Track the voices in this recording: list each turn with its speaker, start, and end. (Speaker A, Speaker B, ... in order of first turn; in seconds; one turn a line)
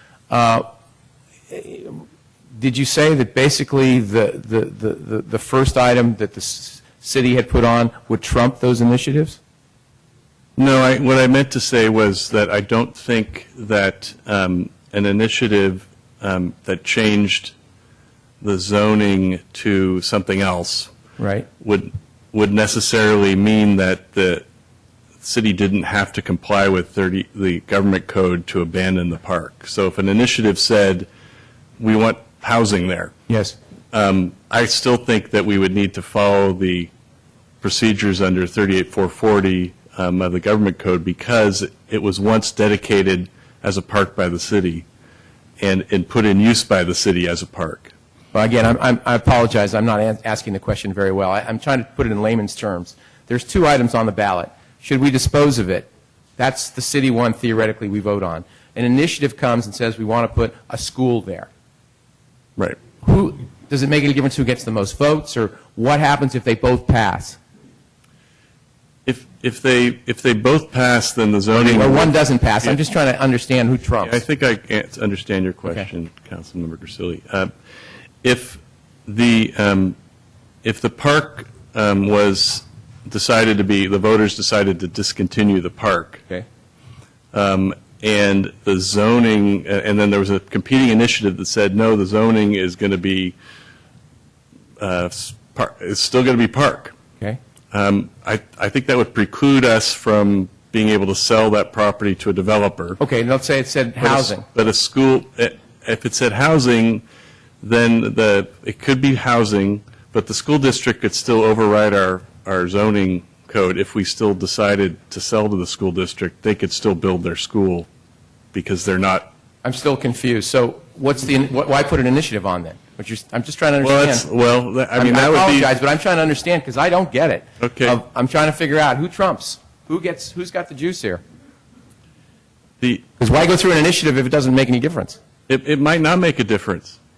Speaker A: 0.3-0.7
Speaker A: 1.5-2.0
Speaker A: 2.6-9.4
Speaker B: 10.6-17.5
Speaker B: 18.4-20.9
Speaker A: 21.2-21.5
Speaker B: 21.6-24.4
Speaker B: 25.2-31.1
Speaker B: 31.8-33.1
Speaker A: 33.3-33.5
Speaker B: 33.9-36.9
Speaker B: 37.6-44.8
Speaker B: 45.6-47.9
Speaker A: 48.3-61.5
Speaker A: 63.0-67.4
Speaker B: 69.0-72.8
Speaker A: 71.5-74.2
Speaker B: 74.0-77.5
Speaker B: 78.2-79.9
Speaker B: 80.6-86.2
Speaker B: 87.3-93.3
Speaker B: 94.8-96.9
Speaker B: 97.7-103.0
Speaker A: 103.0-104.4
Speaker B: 104.0-107.0
Speaker B: 107.6-117.9
Speaker B: 118.5-119.3
Speaker A: 119.6-124.3
Speaker B: 123.8-125.7
Speaker A: 125.0-131.2
Speaker B: 127.6-128.0
Speaker A: 133.2-135.2
Speaker B: 135.5-137.0